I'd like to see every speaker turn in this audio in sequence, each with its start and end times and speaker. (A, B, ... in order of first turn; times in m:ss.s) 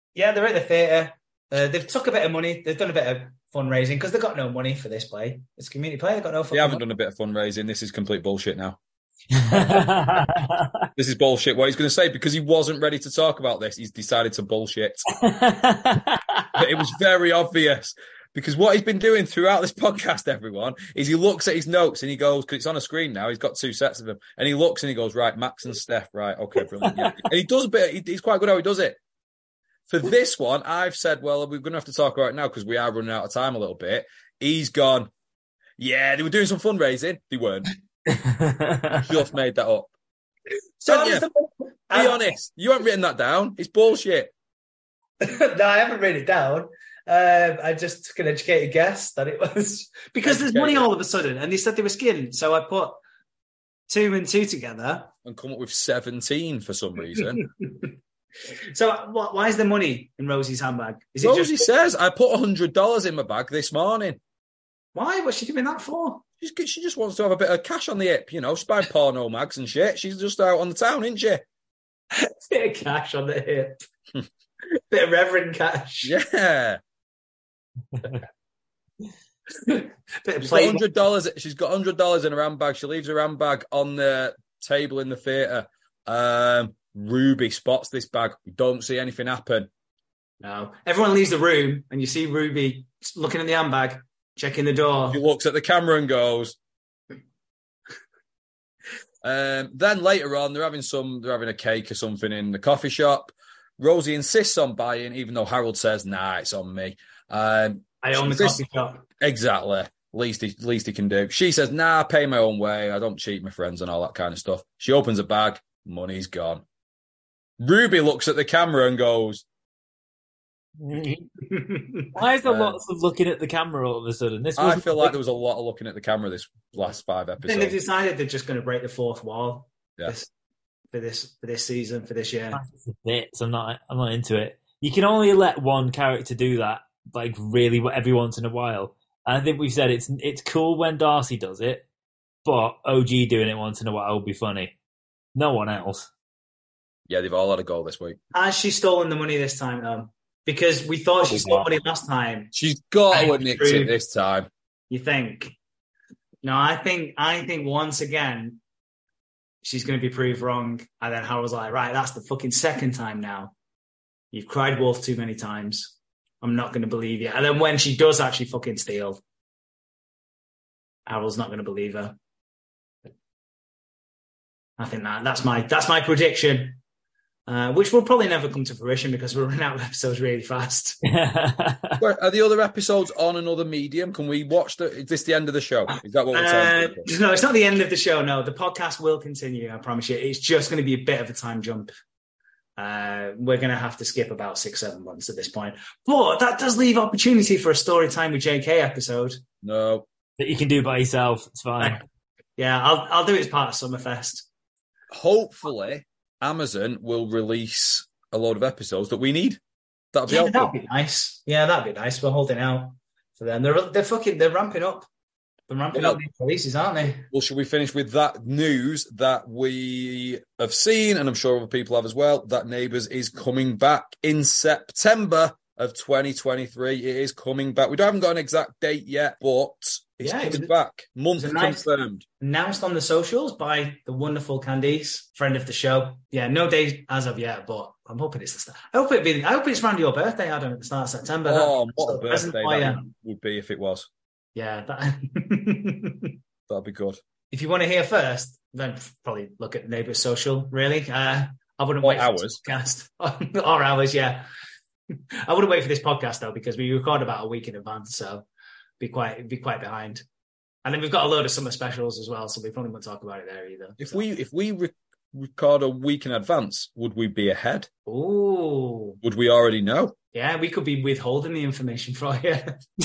0:00.1-0:06.8 A
0:06.5-0:08.8 B
0:09.3-0:10.8 C
0:09.5-0:09.9 B
0:11.0-0:15.0 B
0:15.1-0:16.5 C
0:16.5-0:29.0 B
0:26.8-0:27.2 C
0:29.9-0:35.1 B
0:35.8-0:37.7 B
0:38.1-0:39.1 C
0:39.0-0:39.9 B
0:40.8-0:42.3 A
0:40.9-0:41.2 B
0:41.9-0:44.3 B
0:45.2-0:53.0 A
0:50.2-0:50.9 B
0:53.9-0:55.1 A
0:55.2-0:57.4 B
0:57.4-0:57.9 A
0:58.5-1:01.7 A
1:01.2-1:04.2 B
1:04.9-1:06.2 A
1:06.4-1:11.4 B
1:12.1-1:13.8 A
1:14.7-1:16.1 A
1:16.0-1:16.8 B
1:19.6-1:20.8 A
1:20.4-1:29.7 B
1:30.4-1:35.2 A
1:35.1-1:36.6 B
1:39.2-1:48.6 B
1:48.0-1:49.0 A
1:49.2-1:56.6 B
1:57.6-1:59.4 B
2:00.8-2:01.3 C
2:01.4-2:02.1 A
2:02.1-2:05.1 C
2:02.4-2:02.8 B
2:04.6-2:07.8 B
2:06.8-2:10.3 A
2:10.9-2:12.6 A
2:12.5-2:21.8 C
2:22.4-2:24.7 C
2:25.3-2:26.1 C
2:27.1-2:28.2 B
2:28.3-2:32.5 A
2:32.5-2:34.5 B
2:33.1-2:33.9 A
2:34.9-2:35.5 A
2:36.4-2:38.6 A
2:39.6-2:43.5 A
2:44.3-2:49.2 A
2:51.0-2:52.1 A
2:54.8-2:56.8 A
2:57.5-3:01.0 A
3:01.1-3:02.0 C
3:02.0-3:07.1 B
3:06.3-3:11.9 A
3:12.8-3:19.4 A
3:19.6-3:20.0 B
3:20.4-3:22.0 C
3:22.6-3:24.4 A
3:25.1-3:29.6 B
3:30.1-3:30.7 B
3:30.3-3:35.1 A
3:35.7-3:37.3 A
3:35.9-3:36.2 B
3:37.3-3:52.2 B
3:50.2-3:50.7 A
3:51.4-3:51.8 A
3:52.4-4:03.0 A
4:01.4-4:04.1 B
4:04.5-4:06.3 A
4:06.7-4:07.2 B
4:07.5-4:14.5 A
4:12.0-4:12.6 B
4:15.4-4:18.4 A
4:19.0-4:20.2 A
4:20.8-4:24.2 A
4:24.0-4:27.9 B
4:28.1-4:29.2 A
4:29.2-4:30.1 B
4:30.3-4:32.8 A